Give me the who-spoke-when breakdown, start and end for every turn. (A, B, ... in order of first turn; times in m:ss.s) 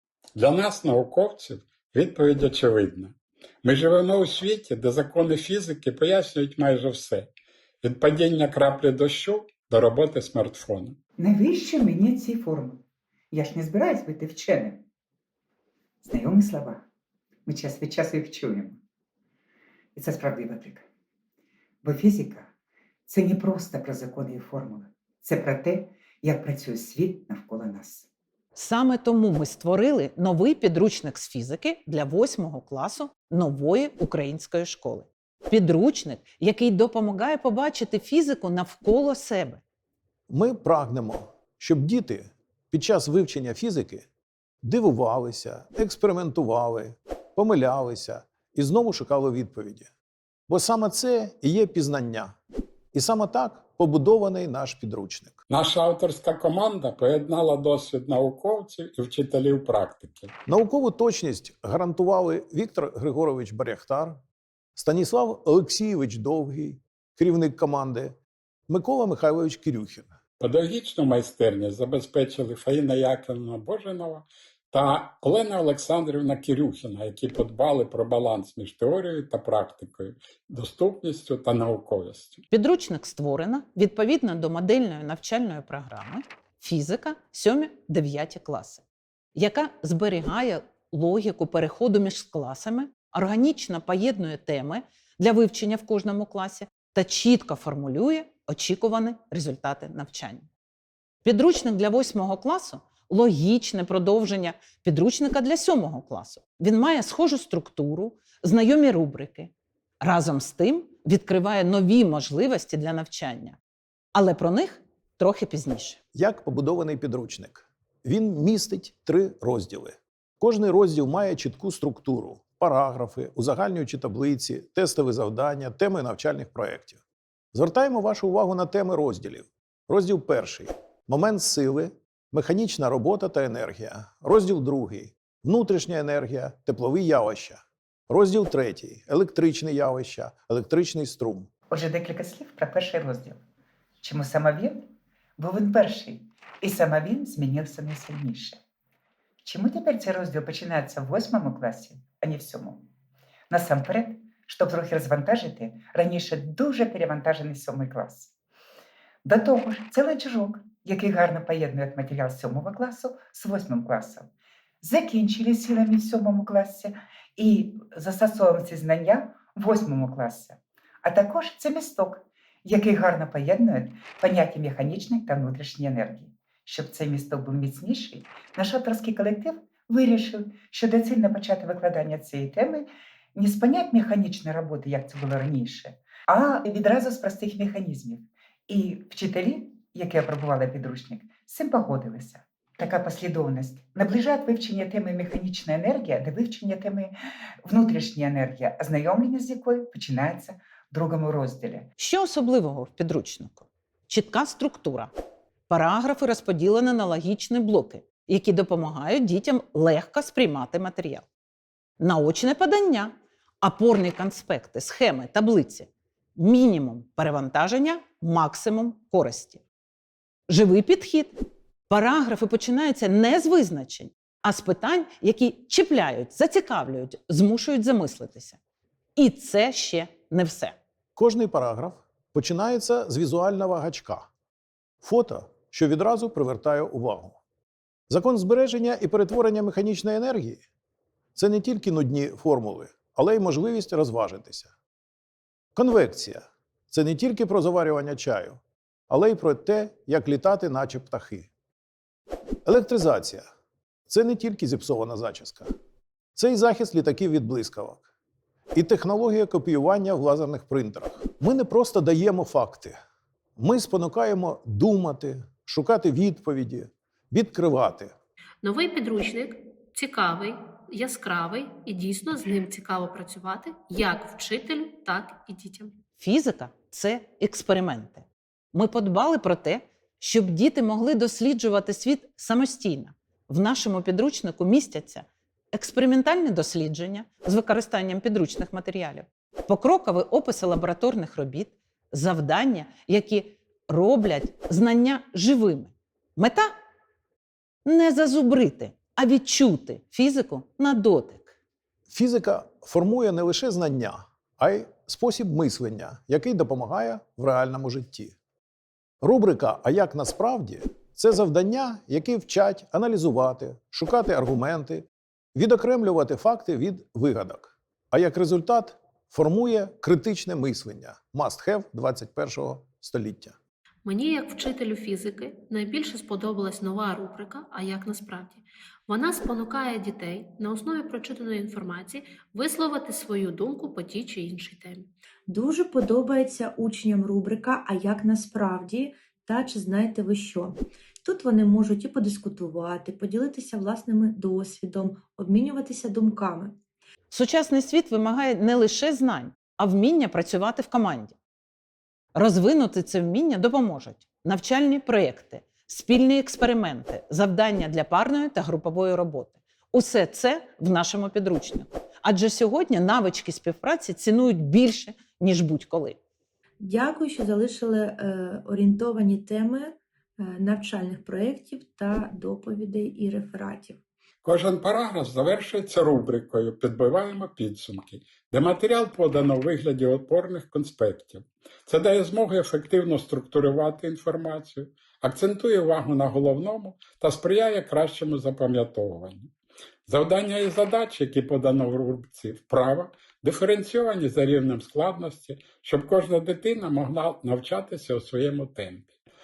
0:00.4-0:07.3 A
0:07.8-0:11.0 A
0:11.2-0:14.8 B
0:16.0-0:16.8 B
0:17.5-0:18.8 B
0:20.0-0:20.8 B
0:21.8-0:22.5 B
0:23.1-0:28.0 B
0:28.5-0:39.6 C
0:40.3-0:44.0 D
0:44.6-0:49.9 D
0:50.5-0:52.3 D
0:52.9-0:55.4 D
0:55.5-1:00.3 A
1:00.5-1:04.2 D
1:04.8-1:08.2 D
1:08.7-1:10.1 D
1:10.4-1:22.4 A
1:22.5-1:28.8 C
1:29.3-1:40.5 C
1:41.2-1:53.6 C
1:54.1-1:56.0 C
1:56.1-2:07.0 D
2:07.5-2:21.5 D
2:21.7-2:23.4 B
2:24.0-2:24.8 B
2:25.4-2:28.6 B
2:29.4-2:32.8 B
2:33.5-2:38.3 B
2:39.2-2:44.3 B
2:44.8-3:21.9 B
3:22.0-3:25.1 C
3:25.7-3:31.2 C
3:32.0-3:39.6 C
3:40.5-3:41.4 C
3:41.9-3:48.6 C
3:49.2-3:50.8 C
3:51.2-3:54.3 D
3:55.0-3:57.4 D
3:58.1-4:00.6 D
4:01.3-4:04.7 D
4:05.8-4:11.5 D
4:12.6-4:13.4 D
4:14.1-4:15.7 D
4:16.4-4:18.0 D
4:18.7-4:23.0 D
4:23.6-4:28.1 D
4:28.6-4:36.0 E
4:36.2-4:56.7 C
4:57.8-5:01.5 C
5:02.1-5:08.3 D
5:09.2-5:23.6 D
5:24.0-5:35.1 E
5:35.5-5:46.8 F
5:47.3-5:51.3 C
5:52.3-6:06.2 C
6:06.8-6:14.0 F
6:14.4-6:29.5 A
6:30.1-6:39.1 A